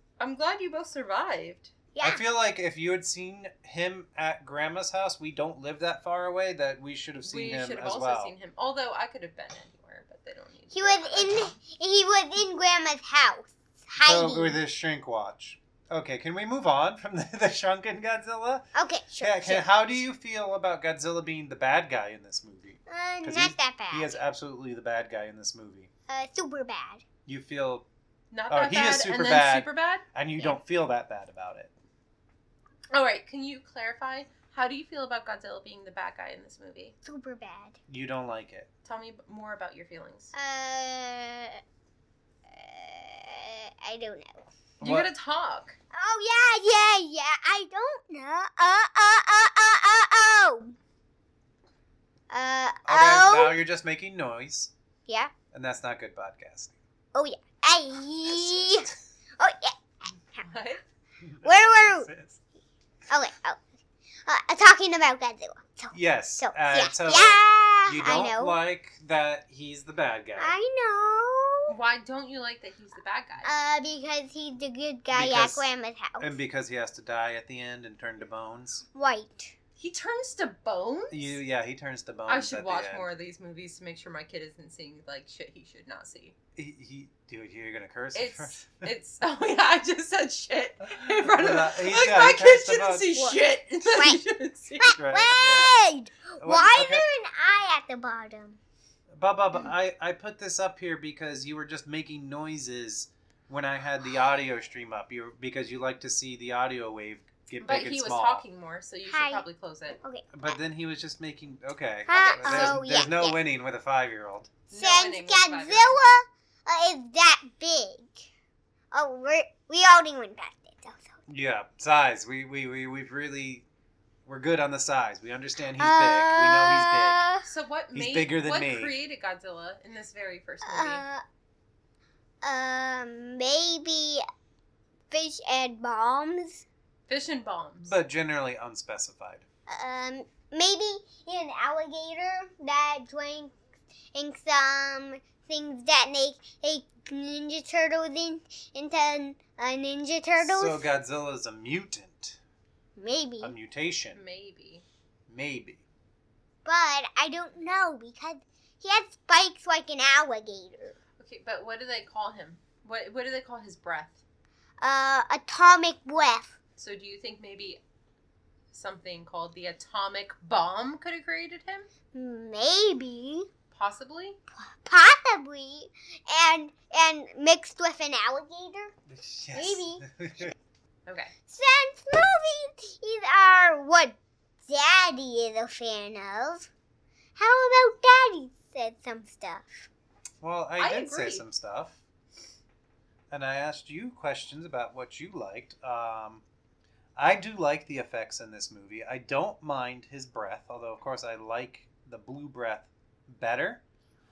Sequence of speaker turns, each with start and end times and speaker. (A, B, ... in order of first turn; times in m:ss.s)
0:00.2-0:01.7 A
0:01.9-0:02.2 B
0:02.0-0:08.3 C
0:07.2-0:11.5 A
0:10.7-0:14.6 B
0:14.0-0:18.7 C
0:18.7-0:19.7 B
0:19.2-0:25.9 C
0:22.9-0:24.2 B
0:26.1-0:27.0 B
0:27.2-0:27.9 C
0:28.3-0:30.0 A
0:28.5-0:31.7 C
0:32.9-0:36.9 A
0:37.0-0:37.7 B
0:37.9-0:38.7 C
0:38.8-0:40.3 A
0:40.3-0:41.6 B
0:42.5-0:44.4 B
0:44.8-0:45.1 C
0:44.8-0:45.8 A
0:45.9-0:50.8 B
0:52.3-0:53.6 B
0:52.8-0:54.7 C
0:55.1-0:55.3 B
0:55.5-0:56.7 C
0:57.1-0:58.9 B
0:59.4-0:59.8 B
1:00.4-1:00.8 A
1:01.2-1:02.4 C
1:01.4-1:02.1 B
1:03.1-1:03.6 B
1:04.3-1:08.6 B
1:05.9-1:10.5 C
1:10.4-1:11.7 B
1:11.7-1:13.5 A
1:13.4-1:16.3 B
1:15.1-1:15.7 C
1:16.2-1:18.8 C
1:18.9-1:19.5 B
1:19.8-1:21.4 A
1:21.1-1:23.1 C
1:22.3-1:26.3 A
1:26.6-1:28.9 C
1:28.1-1:35.0 A
1:31.2-1:33.1 C
1:33.2-1:34.2 B
1:34.8-1:38.6 B
1:35.0-1:35.8 C
1:36.4-1:37.0 C
1:39.1-1:48.4 C
1:47.6-1:50.0 A
1:49.0-1:49.4 B
1:50.0-1:50.6 B
1:50.3-1:54.5 C
1:52.1-1:53.4 B
1:52.1-1:52.8 A
1:54.7-1:56.0 A
1:54.7-1:58.2 B
1:58.9-2:01.1 B
2:01.3-2:03.6 C
2:04.2-2:07.2 C
2:05.8-2:07.4 B
2:07.4-2:11.0 A
2:07.9-2:08.9 C
2:10.6-2:11.2 B
2:12.4-2:14.2 B
2:15.1-2:16.6 B
2:17.1-2:18.0 A
2:17.8-2:19.4 C
2:19.7-2:23.6 B
2:24.1-2:30.9 B
2:30.4-2:32.4 C
2:33.0-2:33.5 B
2:33.4-2:34.2 C
2:34.1-2:34.8 A
2:35.3-2:35.8 C
2:36.6-2:41.0 B
2:41.2-2:44.2 A
2:44.8-2:46.5 B
2:46.8-2:47.8 A
2:48.7-2:51.9 A
2:52.1-2:53.5 B
2:53.7-2:54.4 A
2:54.8-2:59.0 B
2:59.1-3:00.5 C
2:59.5-3:00.0 B
3:01.1-3:01.3 A
3:01.5-3:04.2 B
3:04.7-3:06.7 B
3:07.4-3:09.9 B
3:10.4-3:12.0 C
3:10.8-3:11.4 A
3:13.3-3:16.4 C
3:17.2-3:23.8 C